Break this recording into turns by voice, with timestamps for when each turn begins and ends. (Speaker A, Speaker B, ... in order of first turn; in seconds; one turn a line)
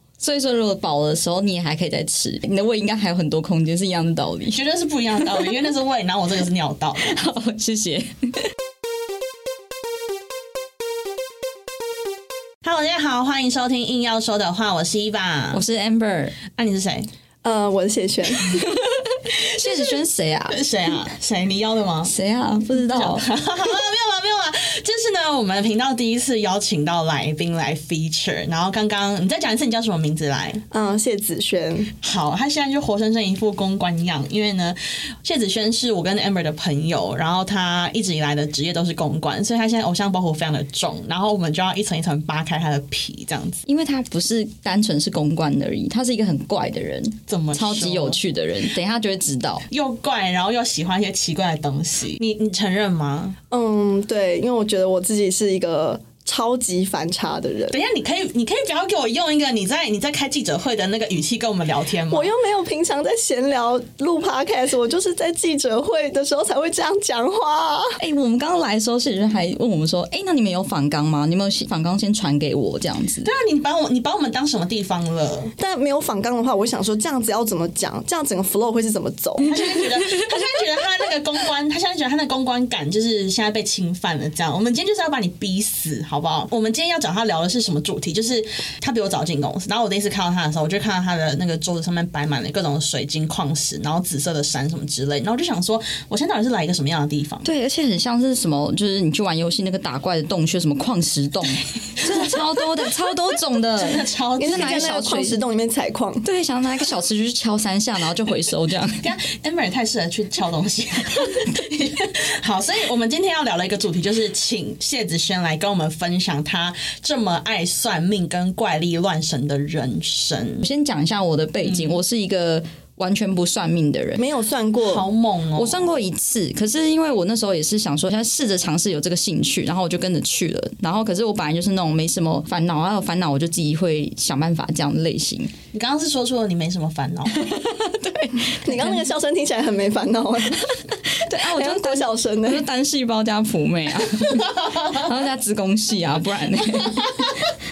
Speaker A: 0.2-4.6
Speaker B: 4.5-7.2
Speaker A: 5.2-5.5
Speaker A: 7.0-8.5
Speaker B: 12.6-15.6
Speaker A: 15.5-16.4
Speaker B: 16.5-17.1
Speaker C: 17.4-18.6
Speaker A: 19.1-20.7
Speaker B: 19.3-22.1
Speaker A: 22.1-23.2
Speaker B: 22.9-30.6
Speaker C: 30.7-31.9
Speaker B: 32.0-43.6
Speaker A: 43.7-49.6
Speaker B: 47.3-48.2
Speaker B: 49.7-53.4
Speaker C: 53.5-57.8
Speaker B: 57.7-62.3
Speaker C: 62.1-68.0
Speaker A: 68.0-73.3
Speaker B: 73.2-75.5
Speaker C: 75.6-79.5
Speaker B: 79.4-97.5
Speaker A: 97.5-105.4
Speaker B: 102.0-102.3
Speaker B: 103.8-105.0
Speaker C: 104.4-106.3
Speaker A: 106.2-109.1
Speaker B: 109.0-120.7
Speaker A: 120.6-124.2
Speaker B: 121.6-122.0
Speaker C: 124.2-125.0
Speaker B: 124.8-125.8
Speaker A: 125.6-135.5
Speaker B: 135.7-137.5
Speaker A: 137.3-139.1
Speaker C: 138.7-140.8
Speaker A: 141.1-147.2
Speaker C: 141.4-142.7